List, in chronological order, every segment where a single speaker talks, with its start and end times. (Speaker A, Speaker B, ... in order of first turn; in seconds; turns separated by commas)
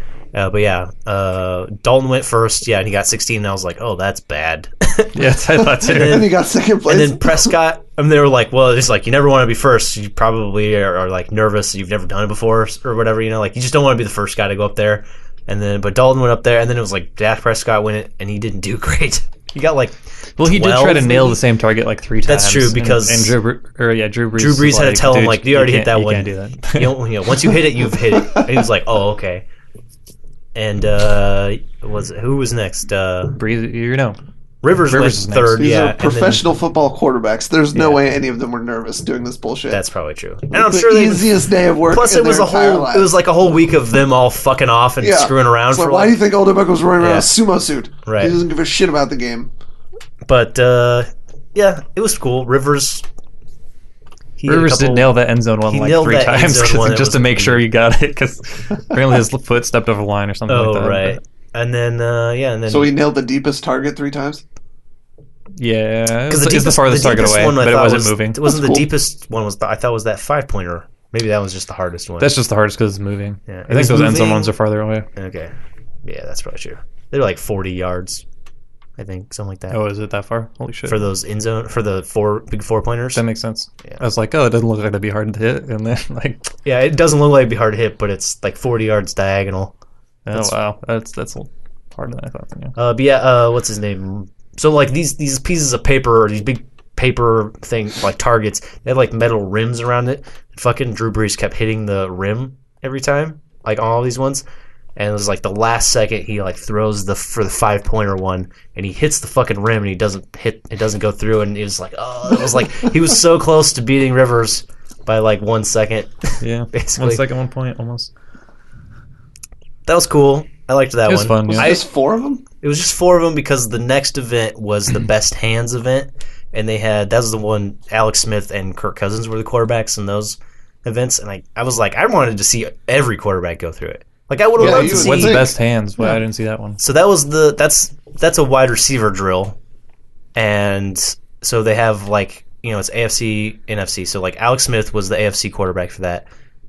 Speaker A: 0.3-5.3, Speaker B: 5.1-6.3, Speaker A: 5.8-6.3, Speaker C: 5.8-7.5, Speaker A: 6.8-21.4, Speaker B: 20.4-27.6, Speaker A: 22.3-23.4, Speaker A: 24.4-29.4, Speaker A: 30.6-33.4, Speaker B: 33.4-34.2, Speaker A: 34.6-36.4, Speaker B: 34.8-35.7, Speaker C: 35.6-39.8, Speaker A: 39.7-46.2, Speaker C: 40.5-43.1, Speaker C: 45.0-49.5, Speaker A: 47.0-47.3, Speaker A: 48.1-48.4, Speaker A: 50.3-53.0, Speaker A: 54.4-55.1, Speaker B: 54.5-61.2, Speaker A: 55.7-57.7, Speaker A: 60.5-63.0, Speaker C: 62.7-64.4, Speaker B: 65.6-68.4, Speaker A: 66.3-72.3, Speaker C: 68.5-68.9, Speaker B: 72.2-75.1, Speaker A: 73.5-74.5, Speaker A: 75.2-75.5, Speaker A: 76.0-78.2, Speaker A: 79.0-79.8, Speaker B: 79.7-81.0, Speaker A: 80.9-83.2, Speaker B: 83.1-86.5, Speaker A: 86.7-89.7, Speaker B: 90.3-92.8, Speaker A: 92.8-104.4, Speaker A: 105.0-117.2, Speaker B: 116.4-118.1, Speaker A: 119.9-121.8, Speaker B: 121.1-121.7, Speaker C: 121.5-122.4, Speaker A: 122.6-135.5, Speaker C: 134.6-135.5, Speaker B: 134.6-136.8, Speaker A: 136.8-139.6, Speaker A: 140.3-146.3